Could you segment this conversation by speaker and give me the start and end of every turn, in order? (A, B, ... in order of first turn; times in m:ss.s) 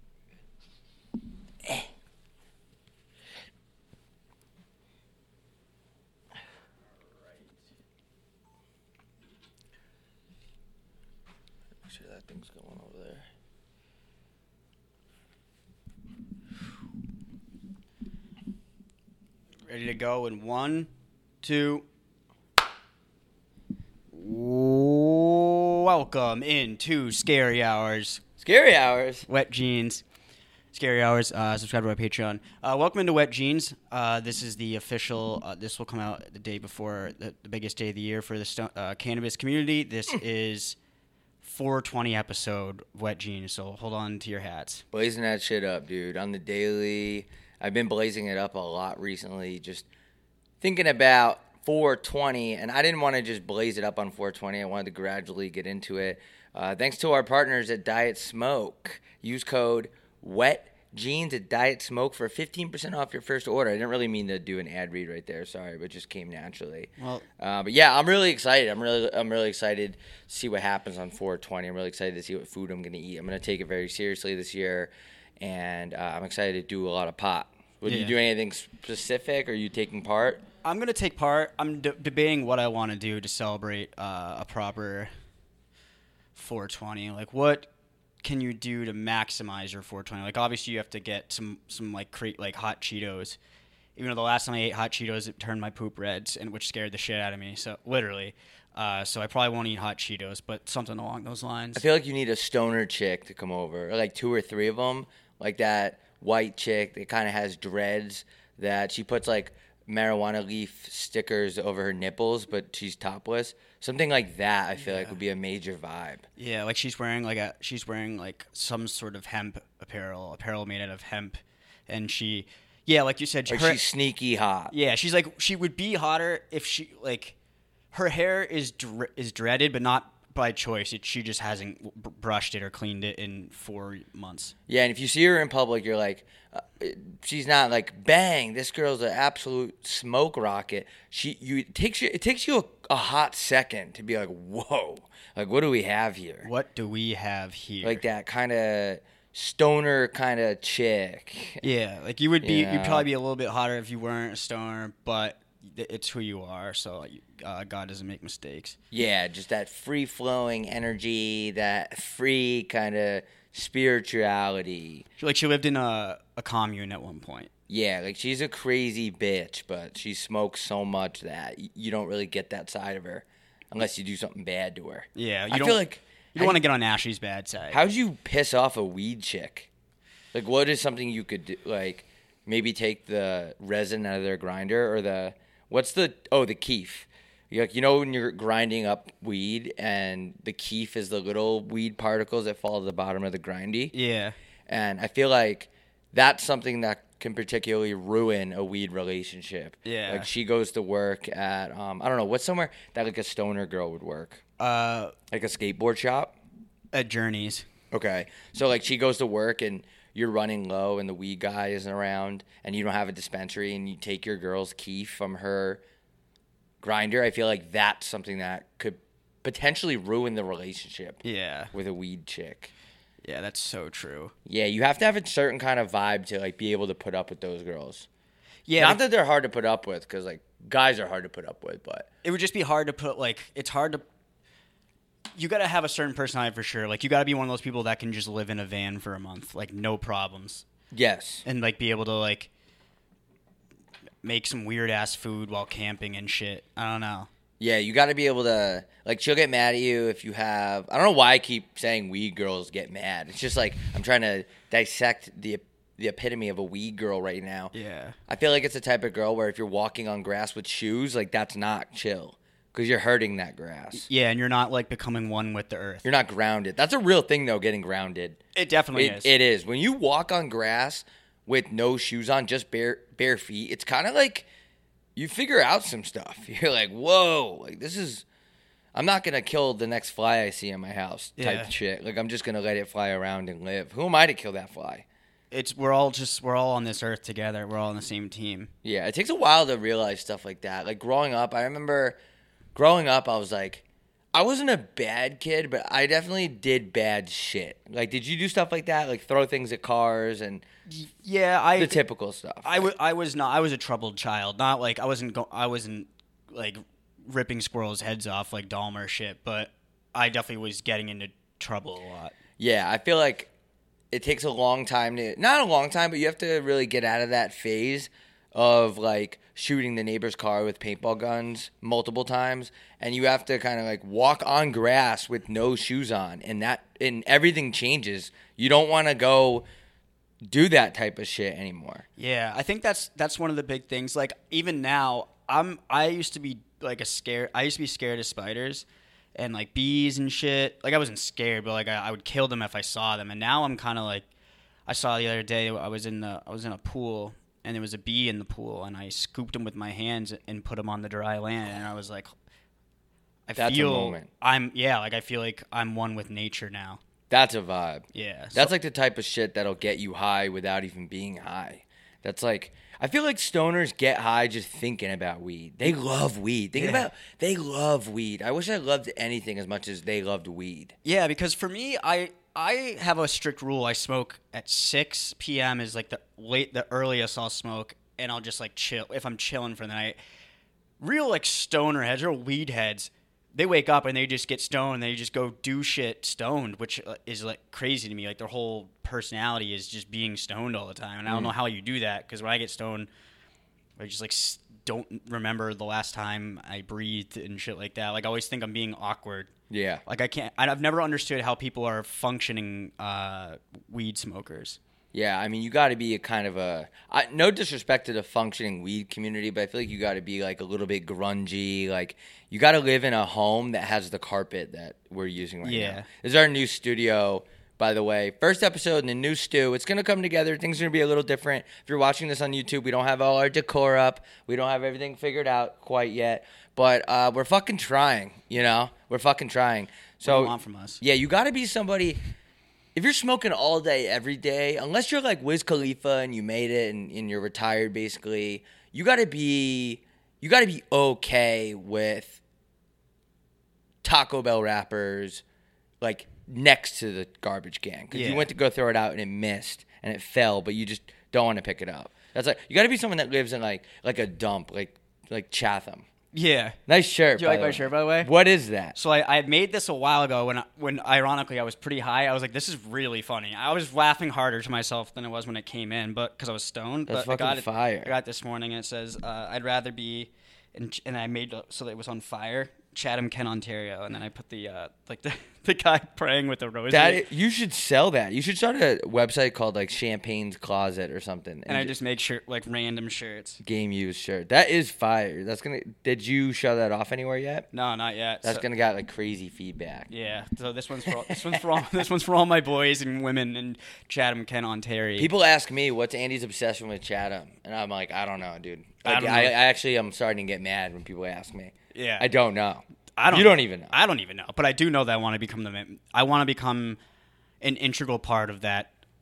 0:11.8-0:13.3 A
0:19.7-0:20.9 B
0:21.4-0:21.9 B
0:24.1-0:28.2 B
0:28.4-0:29.3 A
0:29.3-0:30.0 B
0:30.7-0:40.8 B
0:41.4-0:44.8 B
0:44.9-0:49.9 A
0:50.6-1:20.4 A
1:07.0-1:07.3 B
1:17.9-1:18.2 B
1:20.6-1:25.1 B
1:26.4-1:27.7 B
1:28.2-1:33.4 B
1:34.0-1:41.8 B
1:41.8-1:56.3 A
1:54.9-1:55.1 B
1:56.4-2:03.8 B
2:03.5-2:04.7 A
2:04.7-2:07.4 B
2:07.9-2:14.5 B
2:14.7-2:26.5 A
2:26.4-2:28.0 B
2:27.8-2:31.6 A
2:31.6-2:38.8 B
2:32.4-2:33.1 A
2:38.9-2:45.1 A
2:45.2-2:47.5 B
2:47.7-2:56.6 A
2:55.2-2:55.8 B
2:56.4-2:57.8 B
2:57.7-2:59.7 A
3:00.3-3:13.9 A
3:13.9-3:14.4 B
3:14.7-3:24.4 A
3:19.8-3:20.3 B
3:24.6-3:25.1 B
3:25.3-3:26.3 A
3:26.9-3:27.7 B
3:27.9-3:35.8 A
3:36.8-3:41.2 A
3:41.2-3:41.7 B
3:41.7-3:42.7 A
3:43.2-3:44.3 B
3:44.4-3:48.1 A
3:48.7-3:49.0 B
3:48.8-3:52.1 A
3:52.2-3:54.0 B
3:55.4-4:00.6 B
4:00.9-4:01.4 A
4:01.4-4:02.5 B
4:04.2-4:07.3 B
4:07.6-4:17.7 A
4:17.7-4:18.2 B
4:18.3-4:24.1 A
4:23.9-4:26.1 B
4:26.0-4:28.4 A
4:28.6-4:29.3 B
4:28.9-4:34.5 A
4:35.2-4:38.2 A
4:38.9-4:45.0 A
4:41.4-4:41.7 B
4:45.5-4:48.7 B
4:48.8-4:52.2 A
4:52.8-5:00.6 A
5:00.9-5:02.0 B
5:01.8-5:02.9 A
5:02.6-5:12.3 B
5:12.6-5:13.5 A
5:14.1-5:29.7 A
5:30.5-5:32.0 A
5:32.2-5:44.3 B
5:44.9-5:52.3 B
5:53.5-5:57.0 B
5:53.5-5:54.3 A
5:57.3-6:10.9 A
5:58.1-5:58.7 B
6:06.8-6:07.1 B
6:11.0-6:20.2 B
6:21.0-6:33.1 B
6:31.3-6:31.5 A
6:34.0-6:39.5 B
6:39.7-6:40.0 A
6:40.1-6:44.8 B
6:45.1-7:12.2 A
6:55.6-6:56.1 B
7:10.2-7:11.0 B
7:13.0-7:22.4 A
7:24.0-7:25.4 A
7:26.0-7:36.1 A
7:28.1-7:28.5 B
7:36.3-7:36.8 B
7:36.9-7:39.0 A
7:37.4-7:38.3 B
7:39.0-7:57.2 B
7:47.1-7:48.1 A
7:56.9-8:01.9 A
8:01.7-8:03.6 B
8:03.6-8:07.7 A
8:07.7-8:08.6 B
8:08.4-8:10.1 A
8:10.1-8:15.3 B
8:11.0-8:12.0 A
8:15.2-8:23.9 A
8:19.0-8:19.5 B
8:21.9-8:22.3 B
8:23.2-8:27.0 B
8:27.6-8:28.9 B